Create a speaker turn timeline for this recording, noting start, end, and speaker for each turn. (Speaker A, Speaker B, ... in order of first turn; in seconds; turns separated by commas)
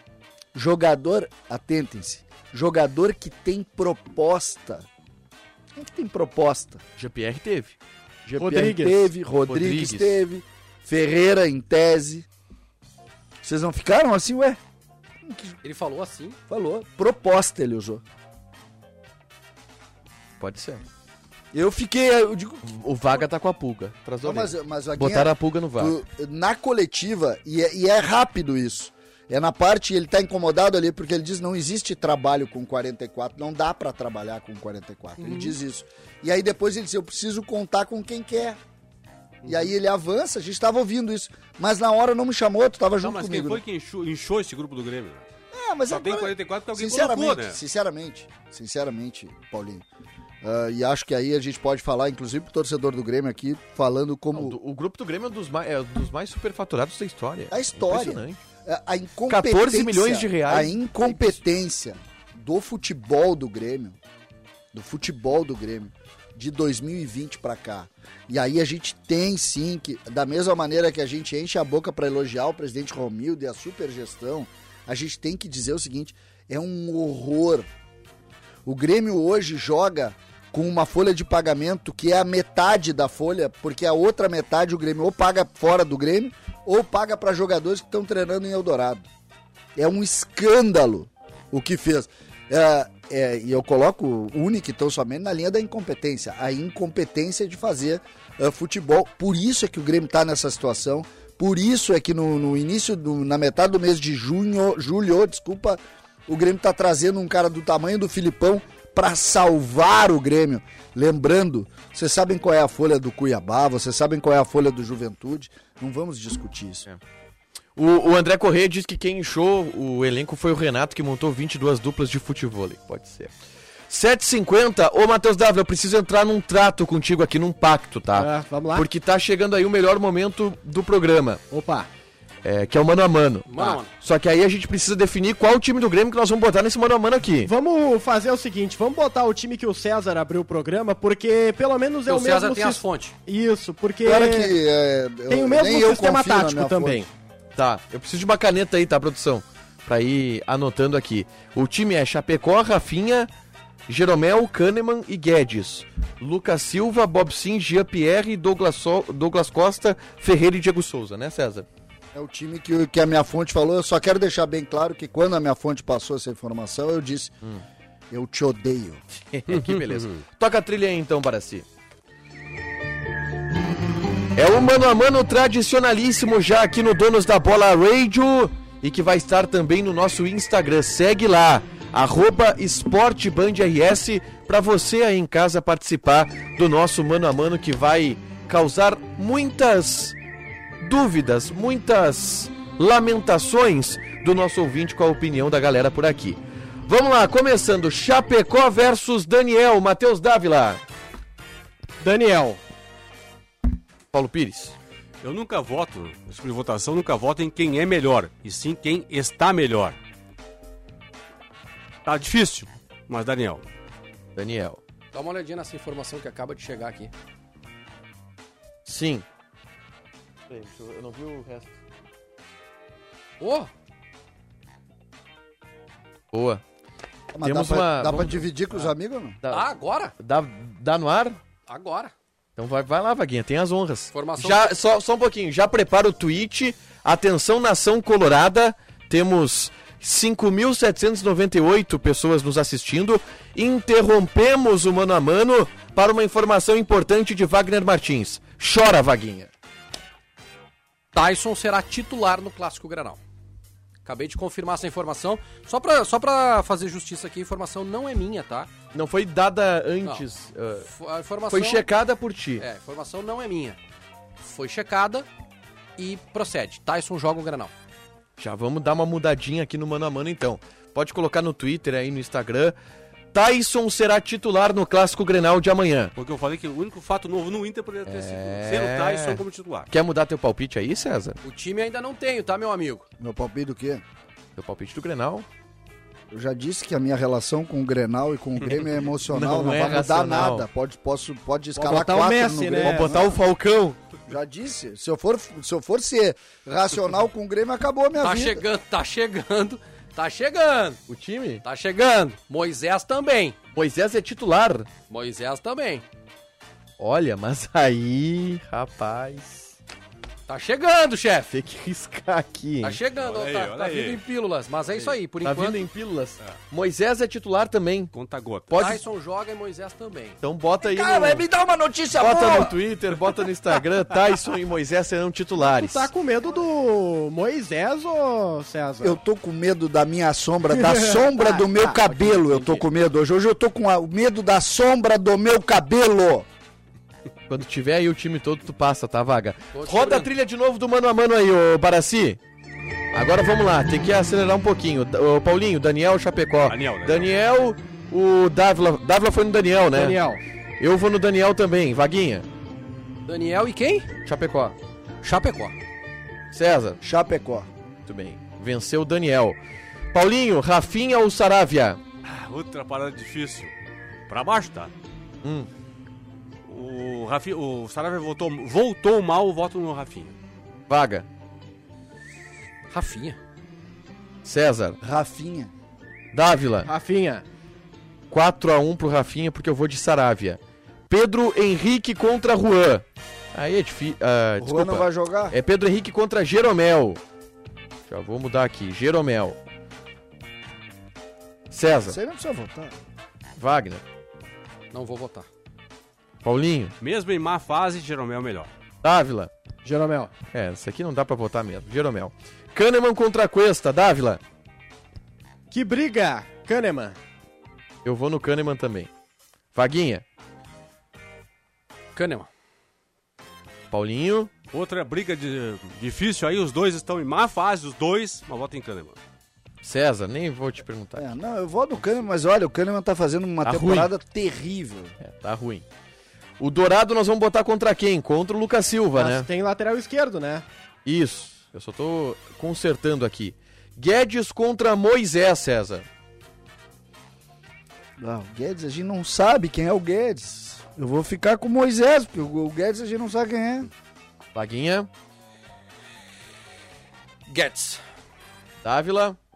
Speaker A: 0.5-4.9, Speaker A: 5.8-6.8, Speaker B: 7.0-8.7, Speaker C: 8.4-9.1, Speaker A: 8.4-12.3, Speaker B: 9.5-10.2, Speaker A: 13.4-14.6, Speaker A: 15.2-15.6, Speaker D: 15.6-16.4, Speaker A: 16.5-18.0, Speaker B: 20.4-20.9, Speaker A: 21.5-22.7, Speaker B: 22.6-26.0, Speaker A: 24.2-38.6, Speaker D: 35.2-35.6, Speaker A: 39.4-43.6, Speaker E: 43.0-45.3, Speaker A: 45.5-49.9, Speaker E: 45.9-47.6, Speaker A: 50.4-54.6, Speaker B: 54.3-58.4, Speaker A: 57.5-64.0, Speaker B: 59.3-61.4, Speaker A: 64.7-77.7, Speaker A: 78.7-89.1, Speaker A: 89.8-116.9, Speaker B: 117.8-123.4, Speaker B: 123.9-131.4, Speaker C: 128.1-128.9, Speaker C: 131.5-131.9, Speaker B: 132.4-137.5, Speaker D: 133.5-133.9, Speaker C: 137.4-144.5, Speaker D: 142.1-143.2, Speaker A: 144.0-147.1, Speaker C: 145.3-147.1, Speaker B: 147.6-153.3, Speaker B: 153.9-161.7, Speaker A: 162.1-167.3, Speaker A: 168.1-169.0, Speaker B: 169.1-171.7, Speaker E: 169.5-170.2, Speaker B: 174.3-190.2, Speaker B: 190.8-200.8, Speaker C: 202.0-202.6, Speaker B: 204.1-204.8, Speaker E: 205.2-210.0, Speaker E: 212.1-213.6, Speaker B: 214.4-214.8, Speaker D: 215.1-217.1, Speaker B: 218.8-219.3, Speaker B: 220.5-221.7, Speaker D: 223.4-223.7, Speaker B: 226.3-226.6, Speaker A: 227.3-229.4, Speaker B: 227.4-231.4, Speaker D: 229.5-230.2, Speaker D: 231.7-232.1, Speaker B: 232.6-249.5, Speaker D: 234.1-234.7, Speaker D: 251.1-253.2, Speaker D: 254.1-258.7, Speaker B: 258.9-260.9, Speaker D: 260.9-261.9, Speaker B: 261.5-262.6, Speaker D: 262.6-263.8, Speaker D: 264.4-265.3, Speaker D: 266.0-267.7, Speaker B: 268.4-272.8, Speaker B: 273.3-276.1, Speaker E: 276.1-279.9, Speaker B: 278.1-281.4, Speaker D: 281.4-283.1, Speaker A: 283.2-284.0, Speaker B: 284.6-285.5, Speaker A: 286.3-293.4, Speaker B: 289.2-290.7, Speaker C: 291.8-293.2, Speaker B: 292.7-294.0, Speaker A: 294.3-298.7, Speaker D: 298.2-301.0, Speaker B: 301.1-301.6, Speaker D: 301.6-303.6, Speaker B: 303.8-304.9, Speaker D: 305.1-306.1, Speaker B: 307.0-309.8, Speaker D: 310.5-311.5, Speaker B: 311.5-313.0, Speaker D: 312.8-315.9, Speaker E: 313.1-314.2, Speaker E: 314.9-315.2, Speaker B: 315.4-318.1, Speaker E: 318.1-318.8, Speaker B: 318.7-319.0, Speaker D: 318.7-320.4, Speaker B: 320.4-321.4, Speaker A: 320.8-322.8, Speaker B: 322.1-326.1, Speaker C: 325.6-329.2, Speaker A: 329.0-336.5, Speaker C: 330.7-332.1, Speaker D: 332.5-332.8, Speaker B: 337.5-342.4, Speaker D: 339.7-340.3, Speaker B: 343.1-350.2, Speaker E: 346.7-347.3, Speaker C: 349.9-350.4, Speaker B: 350.8-352.5, Speaker D: 353.2-354.1, Speaker B: 354.2-354.8, Speaker D: 355.2-355.8, Speaker B: 356.5-357.0, Speaker A: 357.0-357.7, Speaker B: 358.1-359.6, Speaker B: 360.1-362.0, Speaker E: 362.2-363.7, Speaker E: 364.3-364.9, Speaker B: 365.4-365.7, Speaker E: 366.7-370.4, Speaker B: 370.9-371.3, Speaker D: 372.9-373.4, Speaker B: 374.4-375.0, Speaker A: 375.0-375.7, Speaker B: 376.3-376.9, Speaker C: 376.9-377.4, Speaker B: 378.3-387.2, Speaker A: 384.6-385.6, Speaker B: 388.1-389.6, Speaker B: 391.7-392.2, Speaker A: 392.1-393.0, Speaker B: 393.6-394.0, Speaker D: 394.9-395.5, Speaker B: 396.4-396.9, Speaker E: 397.0-398.7, Speaker B: 399.0-399.5, Speaker C: 399.9-400.3, Speaker B: 400.5-404.4, Speaker C: 405.7-407.2, Speaker B: 408.1-409.1, Speaker B: 409.7-410.2, Speaker D: 412.1-412.5, Speaker B: 413.9-414.5, Speaker E: 414.7-419.2, Speaker B: 419.8-421.3, Speaker A: 421.2-425.2, Speaker B: 423.6-424.1, Speaker B: 425.2-425.9, Speaker B: 426.6-429.5, Speaker C: 429.1-430.6, Speaker B: 431.1-436.1, Speaker A: 438.2-443.9, Speaker B: 444.6-445.1, Speaker D: 447.5-448.0, Speaker B: 448.8-449.4